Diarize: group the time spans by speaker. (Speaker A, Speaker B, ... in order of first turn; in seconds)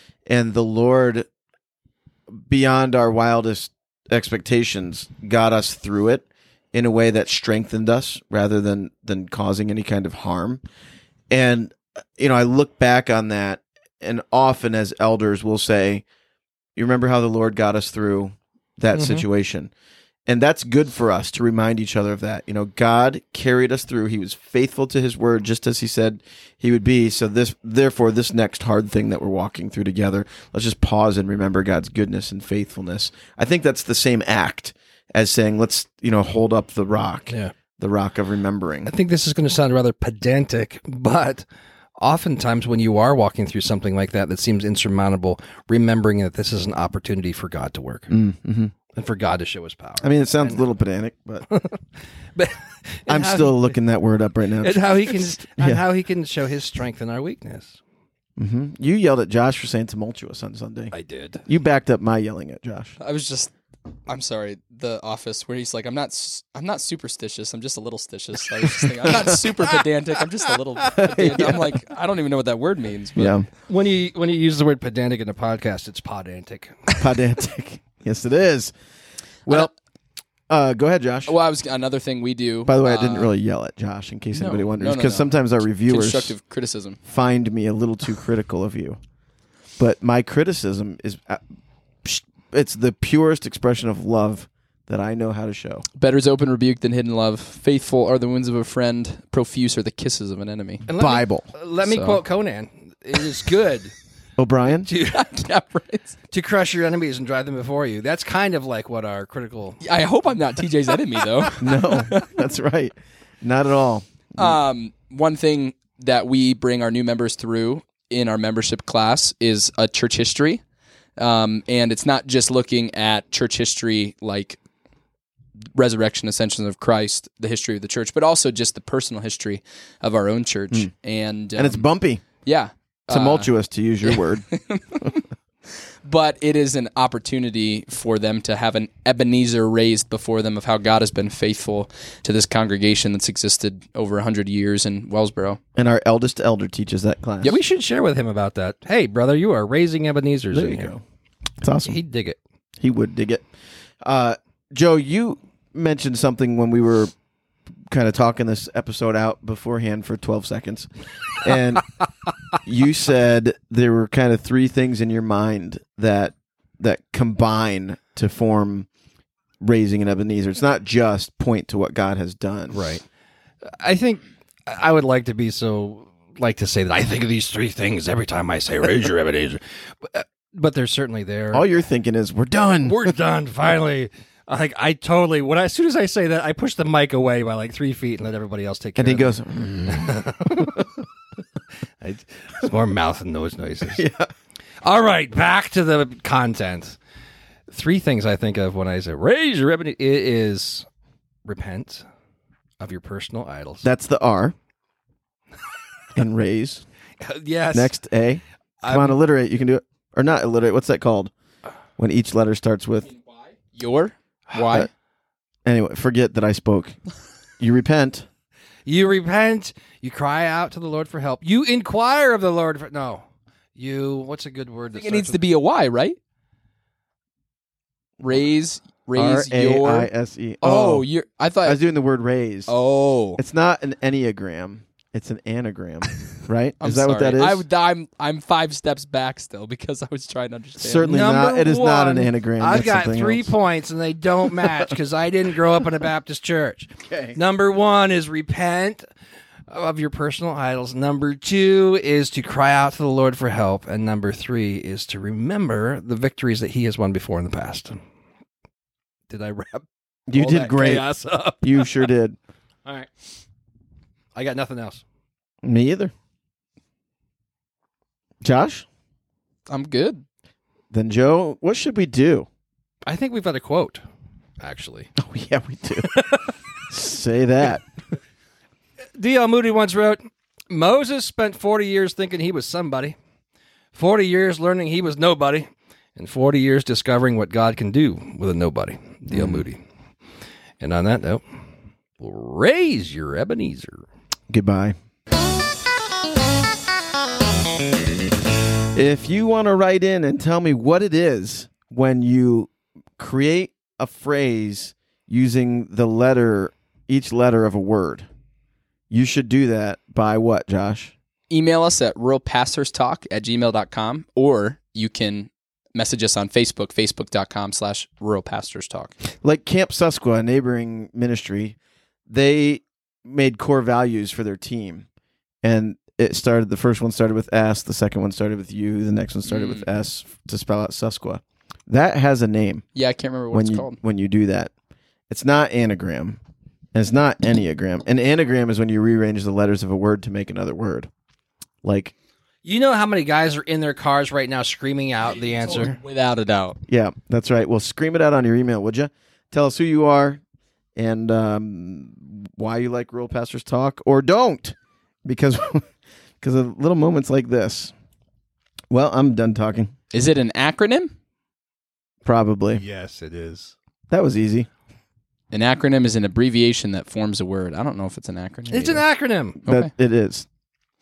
Speaker A: 0.3-1.2, 2.3-10.6, 11.3-16.0, 16.8-19.7, 20.3-38.9, 48.1-48.7, 50.0-51.5, 53.1-55.8, 58.4-60.9, 61.5-63.0, 71.0-71.7, 73.2-73.5, 77.0-78.7, 79.5-79.7, 80.5-81.3, 82.7-86.3, 87.1-89.0, 89.8-91.4, 92.0-95.8, 100.9-101.5, 104.4-104.9, 111.6-114.6, 131.6-132.2, 133.1-134.4, 145.8-147.6, 150.5-151.0, 151.6-152.0, 152.8-153.4, 154.0-157.1, 157.9-161.9, 162.6-168.9, 169.6-172.9, 181.5-183.1, 189.0-190.6, 193.9-194.3, 203.8-204.5, 206.2-206.8, 207.7-211.3, 212.0-213.1, 214.6-214.9, 215.7-217.0, 217.6-218.3, 229.1-231.1, 231.6-232.7, 233.4-237.6, 240.8-243.5, 247.1-247.4, 260.3-261.1, 261.6-262.4, 265.6-266.1, 268.4-268.9, 270.9-272.5, 275.2-276.2, 276.9-277.8, 289.3-289.6, 294.5-294.9, 298.9-308.3, 309.1-311.1, 319.4-321.8, 322.3-325.1, 325.6-332.9, 333.5-334.7, 335.3-336.4, 336.9-341.1, 341.8-342.1, 346.9-350.4, 350.9-355.8, 356.4-357.9, 358.9-359.9, 362.2-362.8, 364.1-364.7, 369.6-370.4
Speaker B: 18.9-19.2, 38.9-41.5, 42.0-48.1, 48.9-50.6, 51.5-51.8, 52.3-53.7, 54.6-57.8, 60.9-61.4, 73.7-76.8, 100.9-103.9, 104.7-105.2, 106.3-109.8, 147.4-150.9, 151.8-152.4, 172.7-173.0, 173.8-181.7, 182.8-190.8, 192.0-194.0, 194.8-197.0, 197.7-200.8, 201.4-202.0, 202.8-203.9, 207.2-207.9, 208.8-209.2, 218.8-223.2, 223.8-225.4, 241.1-249.1, 249.7-258.0, 259.3-262.1, 264.3-265.0, 273.0-274.0, 274.6-275.1, 276.1-276.4, 279.2-283.1, 283.9-289.8, 290.8-291.4, 292.2-294.1, 329.5-329.8, 342.6-346.0, 362.7-363.7, 368.7-369.6
Speaker C: 63.0-63.5, 64.1-73.4, 81.2-83.3, 84.3-87.0, 96.0-100.8, 101.8-102.2, 105.0-106.1, 109.8-112.3, 114.4-120.6, 121.2-124.6, 125.7-131.8, 132.4-133.5, 134.0-135.2, 136.0-145.6, 213.1-214.9, 224.9-226.2, 228.2-230.1, 230.6-231.8, 232.7-233.4, 236.8-241.1, 269.7-270.2, 311.5-319.1, 332.9-334.0, 345.5-346.8, 360.1-361.1, 365.5-369.0, 369.6-369.9